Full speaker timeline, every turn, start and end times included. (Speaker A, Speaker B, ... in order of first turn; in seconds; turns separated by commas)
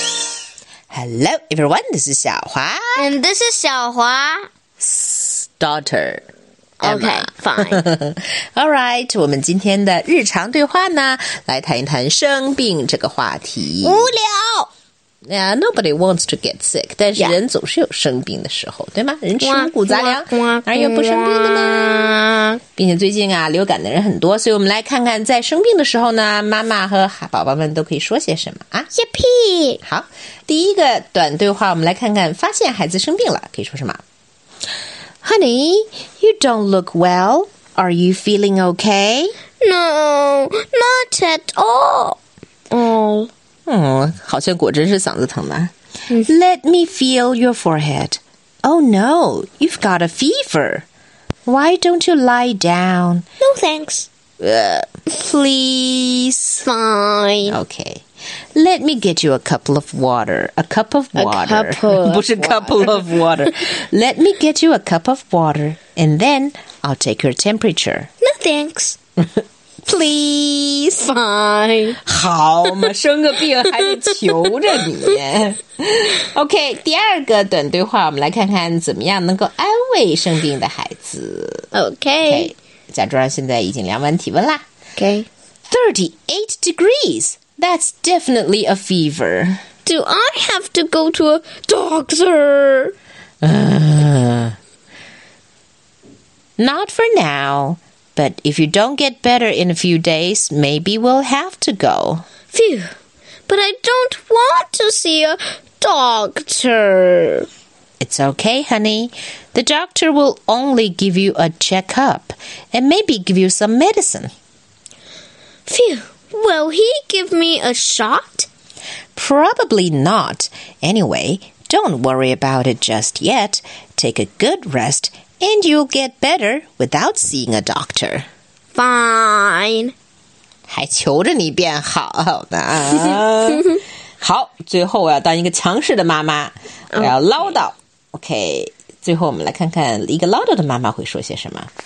Speaker A: 0.9-3.0, Speaker B: 3.0-4.5, Speaker A: 4.8-6.2, Speaker B: 6.8-7.8, Speaker A: 6.8-14.1, Speaker B: 13.8-14.7, Speaker A: 15.2-22.2, Speaker B: 19.4-22.6, Speaker A: 22.8-28.9, Speaker B: 28.9-29.8, Speaker A: 29.8-34.0, Speaker A: 35.2-39.3, Speaker B: 39.6-42.2, Speaker B: 42.7-43.3, Speaker A: 43.7-50.9, Speaker A: 51.5-53.2, Speaker B: 53.4-54.1, Speaker A: 54.4-56.6, Speaker B: 56.6-57.6, Speaker A: 57.5-68.1, Speaker B: 61.2-63.1, Speaker B: 68.2-69.0, Speaker B: 69.9-72.0, Speaker A: 72.0-81.7, Speaker B: 73.7-74.4, Speaker B: 81.7-82.5, Speaker A: 82.2-84.6, Speaker B: 85.0-85.3, Speaker A: 85.7-89.6, Speaker B: 89.8-93.0, Speaker A: 93.4-94.6, Speaker A: 96.6-102.2, Speaker B: 102.5-102.9, Speaker B: 103.5-107.5, Speaker A: 108.0-114.3, Speaker B: 115.7-118.5, Speaker A: 119.2-128.3, Speaker B: 128.8-129.9, Speaker A: 130.7-141.7